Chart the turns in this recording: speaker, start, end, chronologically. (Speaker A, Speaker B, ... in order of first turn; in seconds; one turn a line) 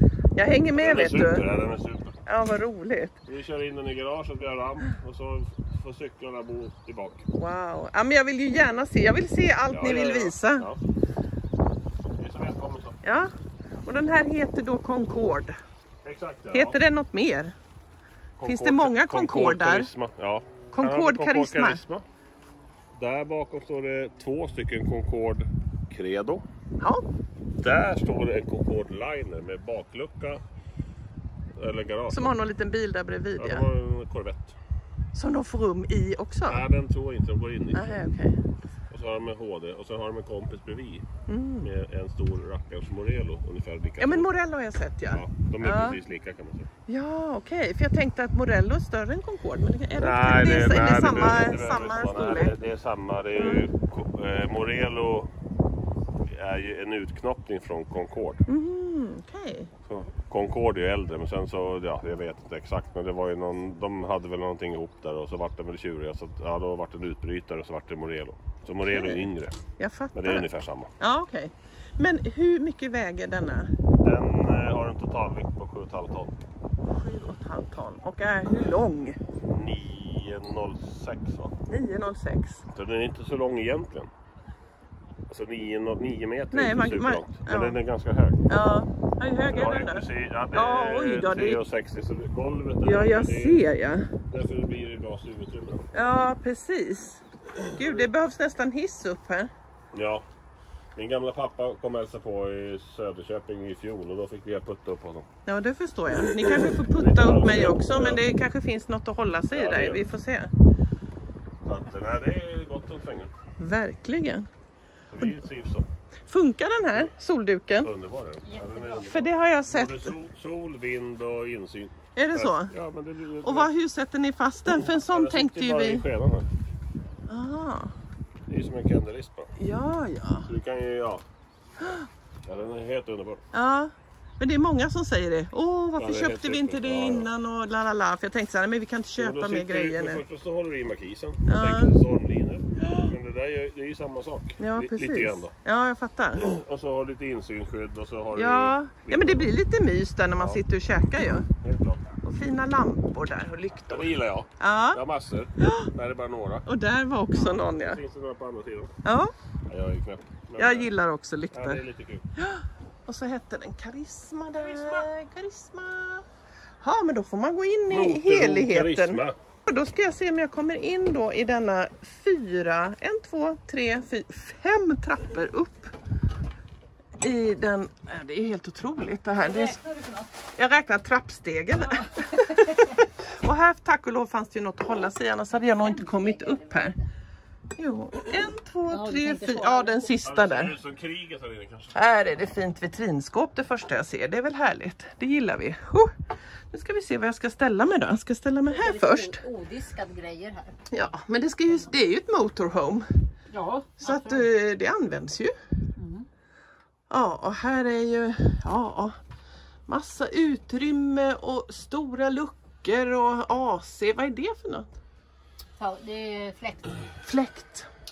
Speaker A: 0.3-1.5
Speaker B: 0.7-2.2
Speaker A: 2.2-3.2
Speaker B: 3.3-7.3
Speaker A: 7.3-10.7
Speaker B: 9.7-10.8
Speaker B: 12.2-13.1
Speaker A: 13.0-15.5
Speaker B: 16.0-16.8
Speaker A: 16.5-17.5
Speaker B: 18.4-22.0
Speaker A: 18.4-19.9
Speaker A: 20.7-21.8
Speaker B: 22.9-26.4
Speaker B: 27.6-30.4
Speaker B: 31.5-32.3
Speaker A: 32.1-33.6
Speaker B: 33.4-34.6
Speaker A: 35.1-36.6
Speaker B: 36.5-38.0
Speaker A: 37.7-38.4
Speaker B: 38.9-41.1
Speaker A: 41.3-41.7
Speaker B: 41.6-44.3
Speaker A: 44.0-46.0
Speaker B: 45.1-46.7
Speaker A: 46.9-52.6
Speaker B: 50.0-55.3
Speaker A: 53.4-53.7
Speaker B: 56.2-58.4
Speaker A: 58.5-59.7
Speaker B: 59.9-69.6
Speaker A: 68.9-69.3
Speaker A: 69.8-70.5
Speaker B: 70.1-70.9
Speaker A: 71.0-73.7
Speaker B: 74.0-76.4
Speaker A: 76.8-79.2
Speaker B: 79.4-81.6
Speaker A: 81.7-82.6
Speaker B: 82.7-84.1
Speaker B: 85.3-88.4
Speaker A: 86.5-87.8
Speaker A: 88.5-91.6
Speaker B: 89.5-93.6
Speaker A: 92.8-94.1
Speaker B: 94.3-95.9
Speaker A: 95.9-99.5
Speaker B: 97.5-98.1
Speaker B: 99.9-100.2
Speaker B: 101.0-105.3
Speaker A: 105.5-110.5
Speaker B: 106.3-108.2
Speaker B: 109.5-110.0
Speaker B: 111.6-113.3
Speaker A: 113.6-114.5
Speaker B: 115.1-115.9
Speaker A: 116.3-117.9
Speaker B: 117.8-123.7
Speaker C: 118.4-119.0
Speaker A: 119.0-120.1
Speaker A: 122.2-122.7
Speaker A: 123.4-126.0
Speaker B: 124.8-126.5
Speaker A: 127.3-127.9
Speaker B: 128.5-129.5
Speaker A: 129.6-130.5
Speaker B: 130.4-131.2
Speaker A: 131.8-132.1
Speaker B: 132.5-133.4
Speaker A: 133.5-140.2
Speaker B: 135.9-137.3
Speaker B: 139.2-145.5
Speaker A: 141.4-141.9
Speaker A: 142.8-143.1
Speaker A: 144.6-146.4
Speaker B: 146.3-149.5
Speaker A: 148.3-151.5
Speaker B: 151.5-152.2
Speaker A: 152.2-155.0
Speaker B: 153.9-156.7
Speaker A: 155.6-155.9
Speaker A: 156.7-158.0
Speaker B: 157.3-159.0
Speaker A: 159.0-159.3
Speaker B: 159.7-160.9
Speaker A: 160.6-161.8
Speaker B: 161.5-162.2
Speaker A: 162.3-166.2
Speaker B: 164.6-165.1
Speaker A: 166.8-175.9
Speaker B: 167.9-169.4
Speaker A: 177.2-179.8
Speaker C: 179.4-180.4
Speaker A: 180.6-186.9
Speaker C: 181.8-183.0
Speaker C: 185.7-187.1
Speaker A: 187.7-190.7
Speaker C: 188.9-190.1
Speaker B: 190.2-192.0
Speaker A: 191.9-199.4
Speaker C: 198.7-200.9
Speaker A: 200.9-203.1
Speaker C: 203.5-204.5
Speaker A: 204.0-205.5
Speaker C: 205.9-206.3
Speaker A: 207.1-209.2
Speaker A: 209.9-214.9
Speaker C: 215.8-217.1
Speaker A: 217.2-217.9